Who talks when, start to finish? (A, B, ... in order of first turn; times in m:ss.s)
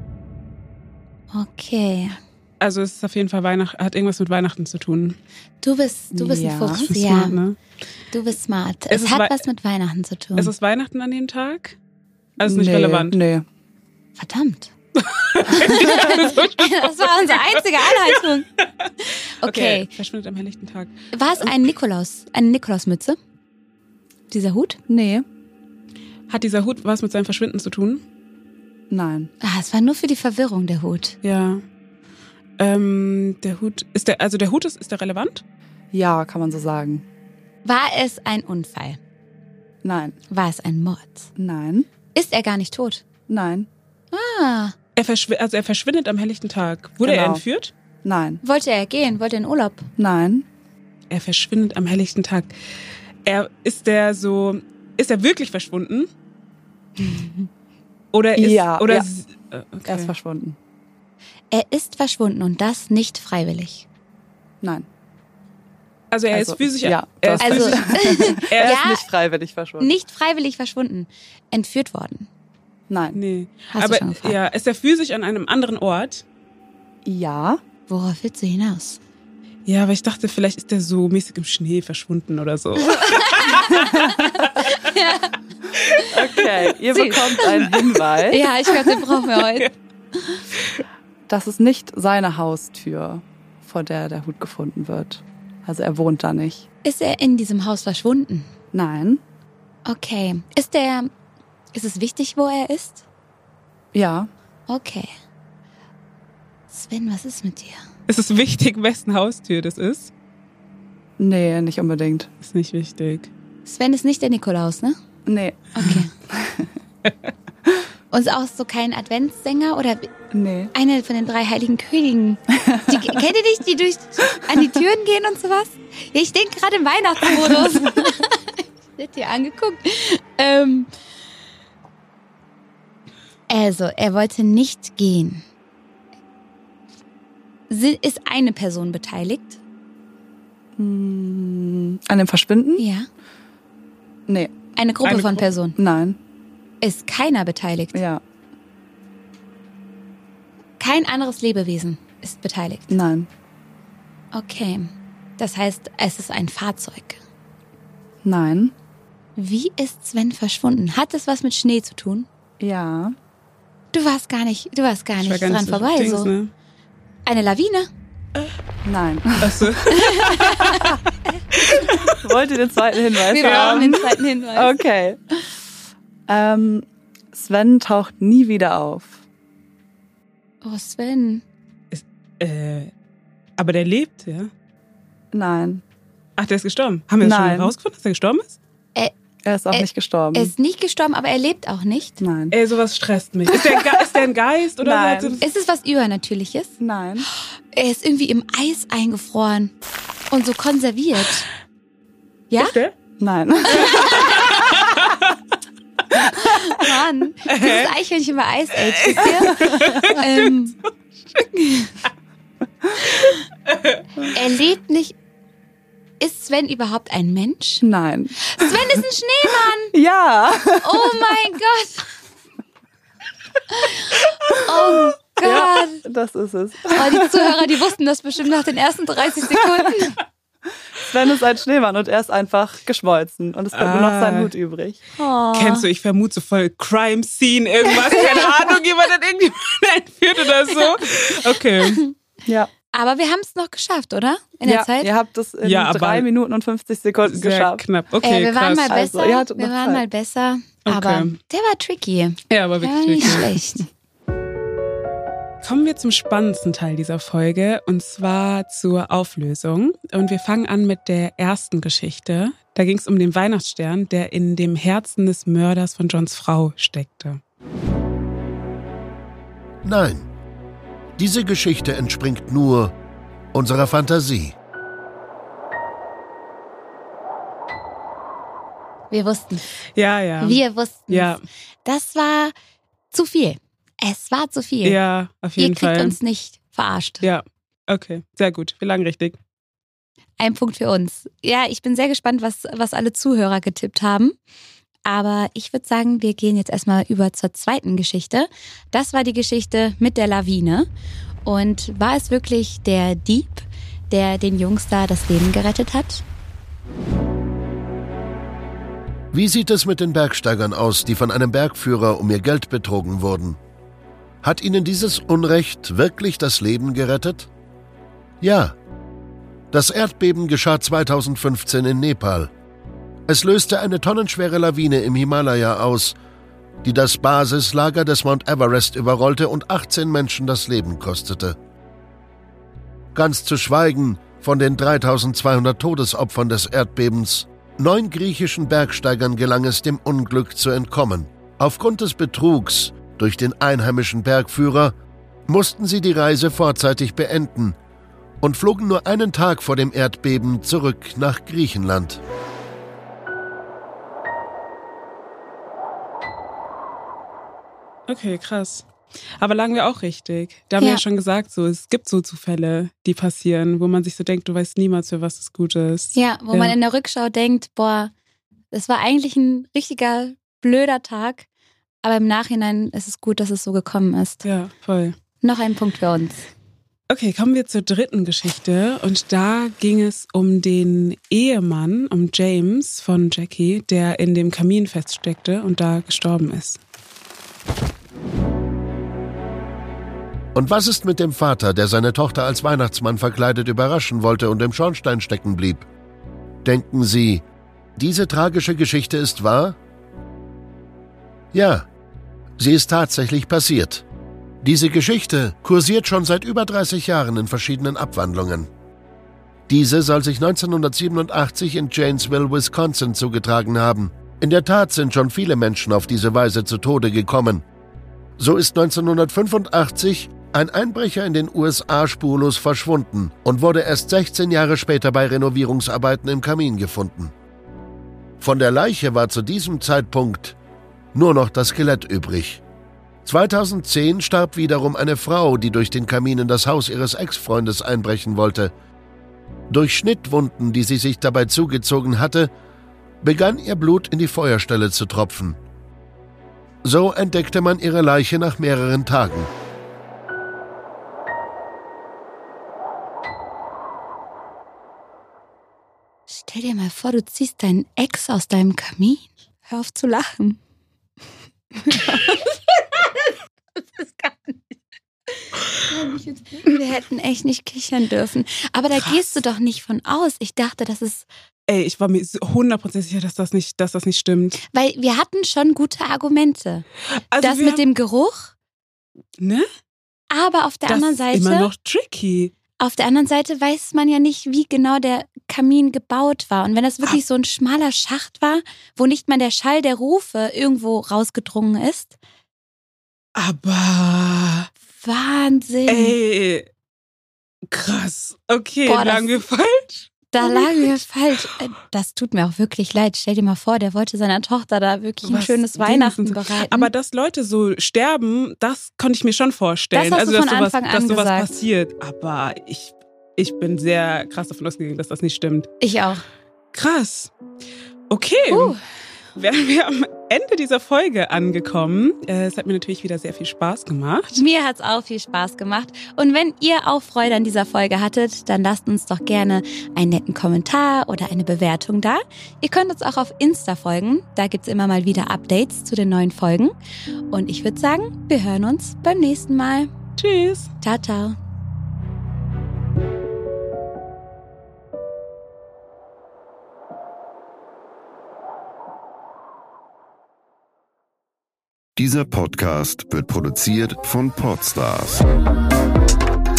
0:01.3-0:02.2 A
0:02.6-0:05.2 B
0:05.6-0:07.4 A
0:06.1-0:06.9 C
0:06.9-0:07.6 B
0:08.1-0:10.5 A
0:08.9-0:09.4 B
0:10.4-0:11.8 B
0:12.4-0:13.2 B
0:12.4-0:13.4 C
0:14.2-0:14.7 A
0:15.0-0:18.2 B
0:15.4-0:18.5 A
0:19.4-0:19.9 A
0:19.4-0:21.5 B
0:21.1-0:23.2 A
0:24.3-0:24.8 A
0:24.9-0:25.2 C
0:26.3-0:28.0 B
0:28.9-0:29.3 C
0:29.4-0:31.2 A
0:31.2-0:31.6 B
0:32.6-0:35.4 B
0:35.9-0:37.0 C
0:37.6-0:39.0 A
0:39.8-0:40.2 C
0:40.3-0:41.3 A
0:41.4-0:41.9 C
0:42.1-0:43.0 A
0:43.3-0:43.7 C
0:44.1-0:44.7 A
0:45.0-0:47.7 B
0:47.0-0:47.4 C
0:48.0-0:48.4 C
0:48.4-0:49.9 A
0:50.0-0:50.4 C
0:51.1-0:52.5 B
0:53.2-0:56.1 B
0:57.0-0:57.5 A
0:58.1-1:00.1 B
0:58.4-0:59.0 C
0:59.8-1:00.6 C
1:01.5-1:03.8 A
1:06.1-1:08.8 B
1:06.3-1:09.9 C
1:07.4-1:09.1 A
1:09.8-1:12.3 A
1:12.9-1:13.2 C
1:13.1-1:16.2 B
1:13.7-1:14.4 A
1:17.0-1:17.6 C
1:17.9-1:19.0 A
1:19.6-1:23.9 B
1:22.8-1:25.3 A
1:23.7-1:24.3 C
1:26.1-1:28.4 C
1:26.9-1:27.7 A
1:28.3-1:29.7 A
1:28.9-1:29.6 B
1:31.3-1:36.6 C
1:36.8-1:38.5 A
1:38.7-1:39.2 C
1:39.8-1:41.1 A
1:41.7-1:43.0 A
1:43.9-1:44.3 C
1:44.7-1:45.1 A
1:46.7-1:47.8 A
1:48.1-1:50.1 B
1:51.2-1:52.3 C
1:52.4-1:53.3 B
1:53.6-1:55.0 A
1:55.2-1:56.7 C
1:55.7-1:56.1 A
1:58.1-2:00.1 A
2:00.3-2:00.7 C
2:00.7-2:10.9 A
2:02.6-2:02.9 C
2:13.5-2:15.4 A
2:17.7-2:19.6 A
2:20.8-2:22.8 C
2:22.8-2:23.1 A
2:24.3-2:24.5 C
2:24.8-2:25.8 A
2:25.0-2:25.5 B
2:25.8-2:26.2 C
2:26.8-2:28.0 A
2:27.9-2:28.2 C
2:30.8-2:32.9 A
2:32.9-2:33.3 C
2:34.3-2:37.2 A
2:38.2-2:38.7 C
2:39.4-2:42.3 A
2:42.6-2:43.1 C
2:43.9-2:46.3 A
2:45.2-2:46.5 B
2:47.2-2:47.9 A
2:48.8-2:49.7 C
2:49.4-2:50.4 B
2:49.9-2:51.0 A
2:51.7-2:52.1 B
2:52.0-2:55.4 C
2:53.3-2:54.8 A
2:53.3-2:54.0 B
2:56.3-2:59.2 C
3:00.6-3:01.4 A
3:01.9-3:02.9 B
3:03.6-3:04.5 B
3:05.3-3:05.8 C
3:06.4-3:08.6 B
3:07.2-3:07.7 C
3:09.4-3:10.5 C
3:09.7-3:12.2 A
3:12.2-3:12.5 C
3:12.5-3:15.4 B
3:14.8-3:15.4 C
3:15.4-3:16.8 A
3:16.8-3:17.3 C
3:17.4-3:19.7 A
3:20.3-3:21.5 A
3:22.5-3:22.7 A
3:22.6-3:22.9 B
3:23.2-3:24.4 C
3:23.7-3:24.8 A
3:23.8-3:25.0 B
3:26.2-3:30.8 A
3:27.5-3:27.9 B
3:29.0-3:30.4 B
3:29.6-3:30.1 C
3:31.4-3:32.0 A
3:33.0-3:33.4 A
3:34.3-3:35.2 A
3:36.2-3:37.8 A
3:37.8-3:38.9 C
3:38.4-3:39.9 A
3:39.9-3:41.2 C
3:40.7-3:42.1 A
3:43.7-3:46.0 A
3:45.4-3:47.6 C
3:46.9-3:50.2 A
3:51.0-3:55.0 C
3:53.7-3:54.5 B
3:55.2-3:55.8 A
3:55.5-4:02.0 B
3:58.0-3:58.5 A
4:02.4-4:02.7 C
4:02.9-4:05.1 A
4:04.6-4:07.8 C
4:05.6-4:06.3 B
4:07.2-4:08.9 B
4:08.2-4:13.8 A
4:08.9-4:10.0 C
4:10.8-4:11.4 B
4:12.5-4:13.6 B
4:15.6-4:27.4 B
4:29.8-4:30.3 D
4:31.2-4:32.9 D
4:33.5-4:34.6 D
4:39.1-4:39.7 A
4:40.0-4:41.4 B
4:40.4-4:42.5 A
4:43.1-4:45.0 A
4:44.8-4:46.2 B
4:45.6-4:47.3 A
4:47.2-4:49.4 B
4:50.4-4:54.4 A
4:55.0-5:00.9 A
5:01.4-5:06.2 A
5:09.3-5:13.6 D
5:14.4-5:17.5 D
5:18.4-5:18.7 D
5:19.7-5:22.5 D
5:23.3-5:26.2 D
5:26.8-5:31.6 D
5:33.1-5:44.9 D
5:45.5-5:47.8 D
5:48.4-5:52.2 D
5:58.1-5:58.9 B
5:59.4-6:06.7 B
6:06.1-6:08.1 A
6:08.7-6:11.4 A
6:12.0-6:14.4 A
6:14.4-6:15.2 B
6:15.4-6:16.5 A
6:17.1-6:26.8 B
6:30.5-6:35.8 D
6:36.6-6:37.4 D
6:38.0-6:39.8 D
6:41.5-6:41.9 D
6:42.6-6:44.0 D
6:44.6-6:48.7 D
6:49.7-6:57.6 D
6:58.4-7:07.3 D
7:08.4-7:10.6 D
7:11.1-7:12.6 D
7:13.2-7:18.7 D
7:19.7-7:22.5 D
7:23.2-7:25.6 D
7:26.8-7:29.5 D
7:36.3-7:40.6 A
7:41.8-7:42.6 A
7:43.8-7:44.6 A
7:45.9-7:51.2 A
7:51.7-7:54.6 B
7:54.7-7:56.8 A
7:57.3-7:57.8 B
7:57.4-7:58.5 A
7:59.4-7:59.6 B
8:00.3-8:01.7 A
8:00.9-8:02.5 B
8:02.8-8:12.1 A
8:13.4-8:14.7 B
8:14.9-8:16.2 A
8:15.9-8:16.7 B
8:17.7-8:20.8 B
8:18.9-8:19.4 A
8:20.3-8:26.9 A
8:25.2-8:35.7 B
8:29.9-8:31.6 A
8:35.8-8:36.2 A
8:36.7-8:37.3 B
8:38.1-8:38.8 B
8:38.5-8:38.8 A
8:39.4-8:44.3 B
8:44.3-8:56.7 A
8:57.3-8:59.9 A
9:00.2-9:00.7 B
9:00.8-9:01.4 A
9:12.0-9:15.2 E